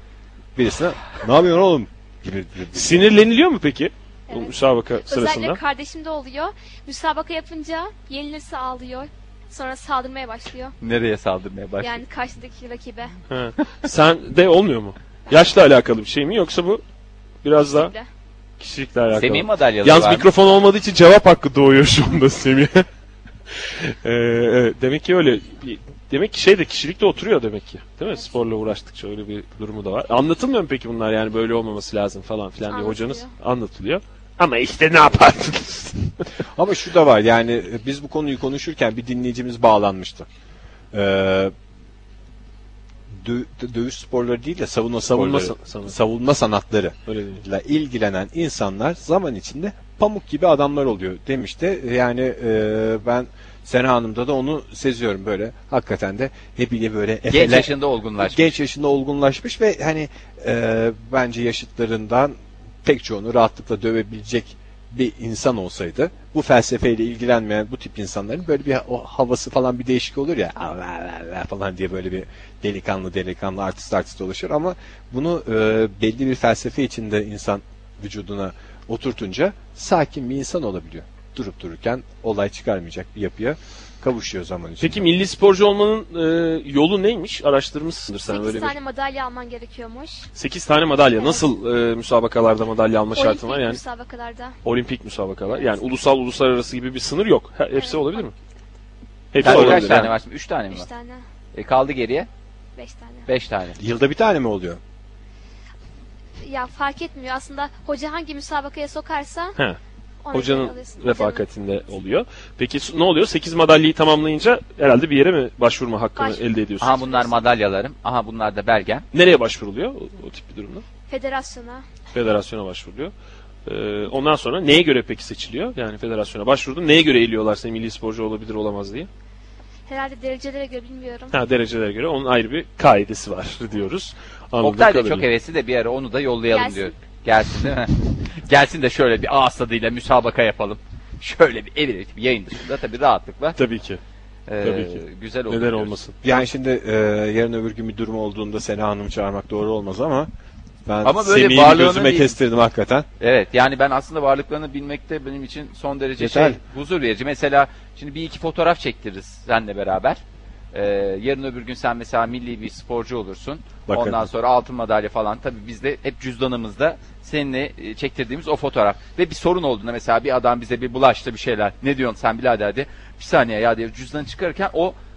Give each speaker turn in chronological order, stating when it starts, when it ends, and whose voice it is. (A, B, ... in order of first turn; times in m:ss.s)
0:00.6-0:03.1 A
0:02.8-0:05.6 B
0:04.3-0:10.8 C
0:10.8-0:12.0 D
0:11.8-0:13.1 C
0:13.3-0:16.8 B
0:17.4-0:17.9 B
0:17.6-0:18.1 C
0:18.6-0:22.9 B
0:19.1-0:20.3 D
0:23.6-0:36.2 B
0:32.7-0:33.3 C
0:36.6-0:40.3 A
0:40.9-0:41.5 A
0:43.1-1:25.1 A
0:45.0-0:46.0 B
0:47.1-0:47.4 B
0:57.3-0:58.5 D
1:24.8-1:28.8 B
1:28.3-1:30.3 C
1:30.4-1:33.8 B
1:31.2-1:31.4 C
1:33.1-1:34.5 C
1:34.6-1:38.3 B
1:37.8-1:38.3 C
1:39.3-1:40.1 B
1:39.4-1:40.9 D
1:39.5-1:39.8 C
1:40.7-1:41.2 C
1:41.5-1:42.3 D
1:42.8-1:43.3 C
1:43.3-1:43.8 D
1:43.8-1:44.8 A
1:46.4-1:49.6 C
1:50.2-1:51.4 C
1:50.3-1:56.9 B
1:56.2-1:57.4 C
1:56.8-1:59.1 D
1:59.1-2:00.8 B
2:01.1-2:01.8 C
2:02.1-2:03.1 B
2:03.7-2:09.1 B
2:09.9-2:11.4 C
2:11.3-2:15.3 B
2:14.6-2:23.6 D
2:16.5-2:16.9 C
2:23.6-2:24.0 B
2:24.5-2:26.4 D
2:24.6-2:26.2 B
2:26.2-2:30.3 A
2:30.9-2:33.1 A
2:31.0-2:32.4 D
2:33.2-2:40.2 D
2:36.2-2:36.6 A
2:40.7-2:55.0 D
2:43.9-2:44.3 A